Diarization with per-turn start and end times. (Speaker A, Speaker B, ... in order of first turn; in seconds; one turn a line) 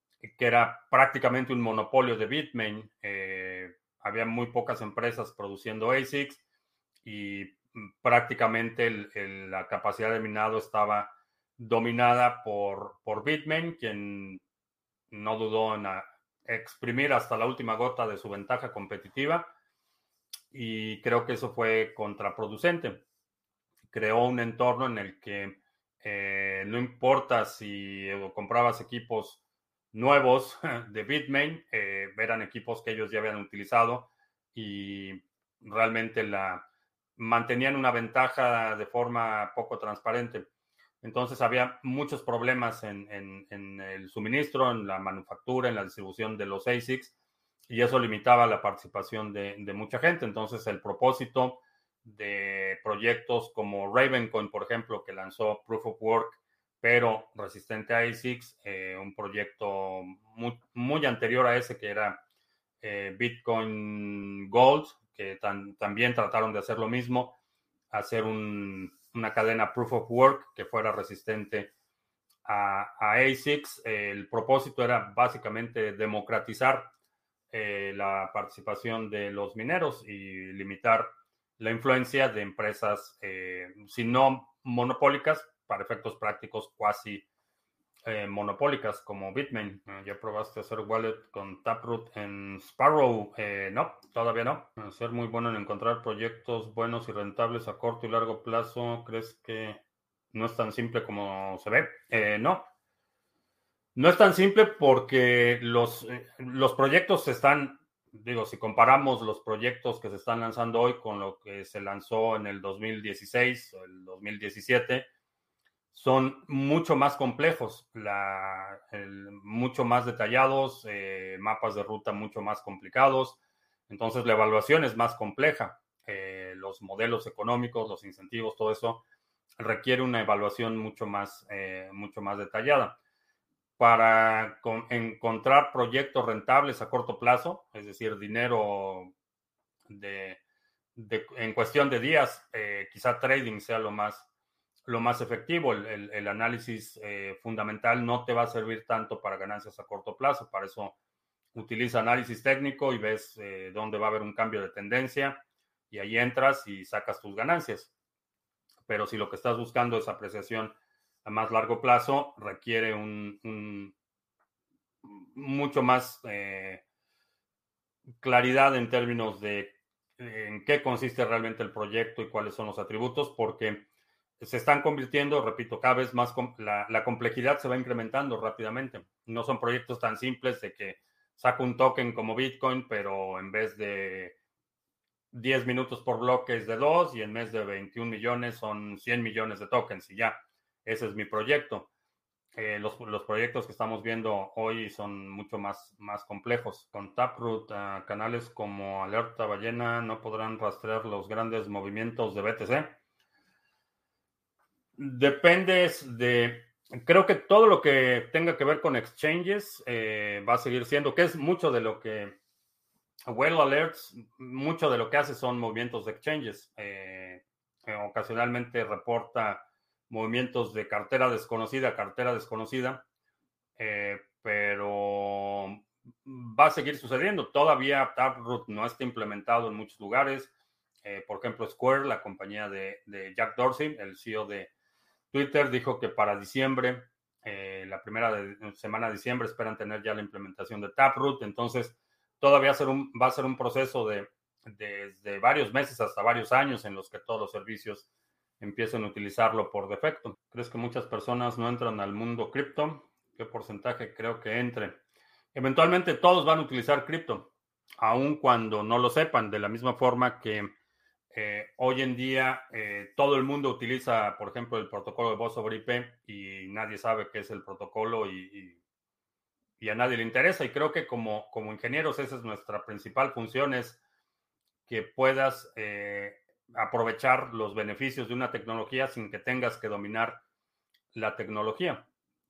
Speaker A: 0.2-6.4
Speaker A: 7.0-14.4
Speaker A: 15.1-19.5
Speaker A: 20.5-23.0
Speaker A: 23.9-29.4
Speaker A: 29.9-36.6
Speaker A: 37.2-40.5
Speaker A: 41.0-47.1
Speaker A: 47.7-62.2
Speaker A: 62.8-67.3
Speaker A: 67.9-71.7
Speaker A: 72.4-76.9
Speaker A: 77.5-87.2
Speaker A: 88.0-99.8
Speaker A: 100.3-102.7
Speaker A: 103.9-115.1
Speaker A: 115.9-129.0
Speaker A: 129.6-133.0
Speaker A: 133.8-139.1
Speaker A: 139.9-140.4
Speaker A: 140.9-144.2
Speaker A: 144.9-150.9
Speaker A: 151.5-157.9
Speaker A: 158.9-163.9
Speaker A: 165.1-166.8
Speaker A: 168.2-173.8
Speaker A: 174.4-184.3
Speaker A: 185.3-191.9
Speaker A: 192.6-202.9
Speaker A: 205.0-212.4
Speaker A: 213.3-223.0
Speaker A: 223.8-230.5
Speaker A: 231.0-234.7
Speaker A: 235.3-248.1
Speaker A: 248.6-255.0
Speaker A: 255.5-260.7
Speaker A: 261.3-268.8
Speaker A: 269.8-274.0
Speaker A: 274.9-280.4
Speaker A: 281.1-282.1